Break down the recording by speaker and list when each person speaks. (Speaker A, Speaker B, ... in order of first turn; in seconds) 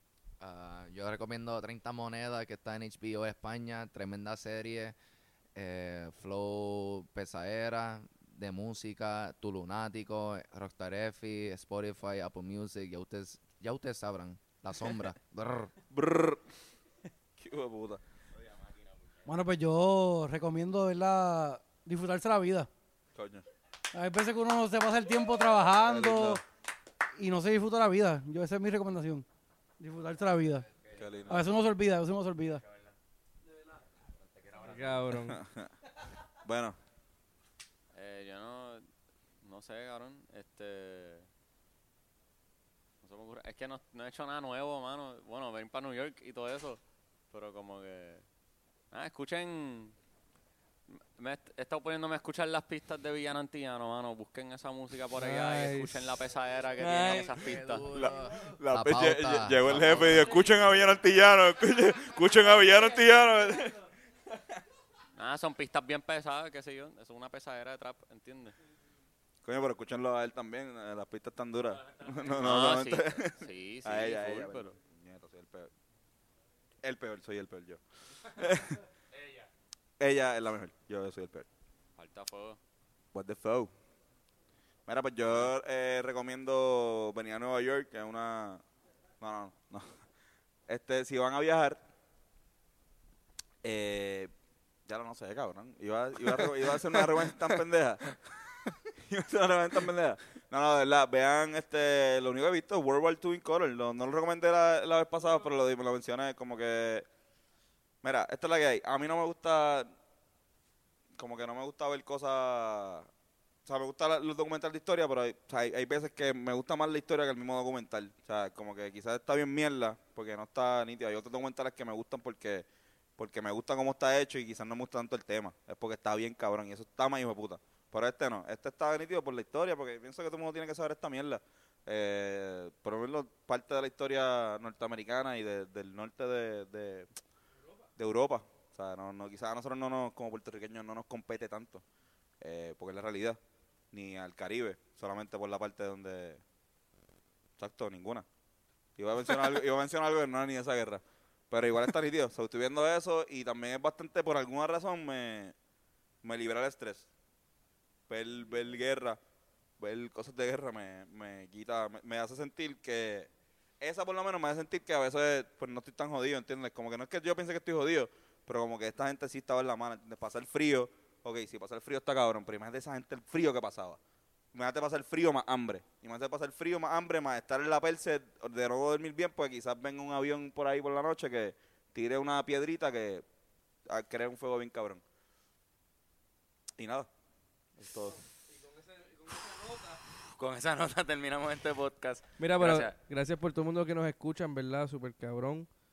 Speaker A: 0.4-5.0, 5.5-15.7, 57.0-60.5
Speaker B: 15.9-16.4, 17.4-18.0, 23.1-23.4, 25.8-26.4, 30.9-31.5, 35.2-35.7, 36.4-36.8, 57.8-63.8, 69.4-75.7, 76.8-78.8, 80.0-81.5, 83.1-83.7, 84.9-88.6, 89.2-89.9, 90.7-91.8, 93.6-94.3, 94.8-107.1, 108.0-109.9, 111.2-113.1, 113.7-122.7, 123.2-137.1, 137.9-141.8, 142.4-143.4, 143.9-146.4, 147.6-148.2, 149.0-155.5, 156.2-157.1, 158.1-159.2, 159.8-174.0, 174.5-183.2, 183.9-185.0, 186.8-187.1, 187.8-188.2
Speaker C: 18.4-19.3, 32.7-32.9, 34.2-35.0, 190.3-192.9
Speaker D: 19.2-22.7, 23.9-26.4, 27.2-29.2, 29.8-30.7, 31.3-32.6, 33.4-33.8, 58.1-58.6, 60.1-60.5, 62.6-63.9
Speaker E: 34.6-35.4, 55.2-56.0, 56.8-57.3, 188.5-190.0, 192.4-195.7
Speaker F: 37.9-38.9, 39.4-41.3, 43.0-46.8, 47.3-48.2, 48.9-49.9, 50.9-57.9, 65.1-68.5, 72.4-74.7, 82.0-82.6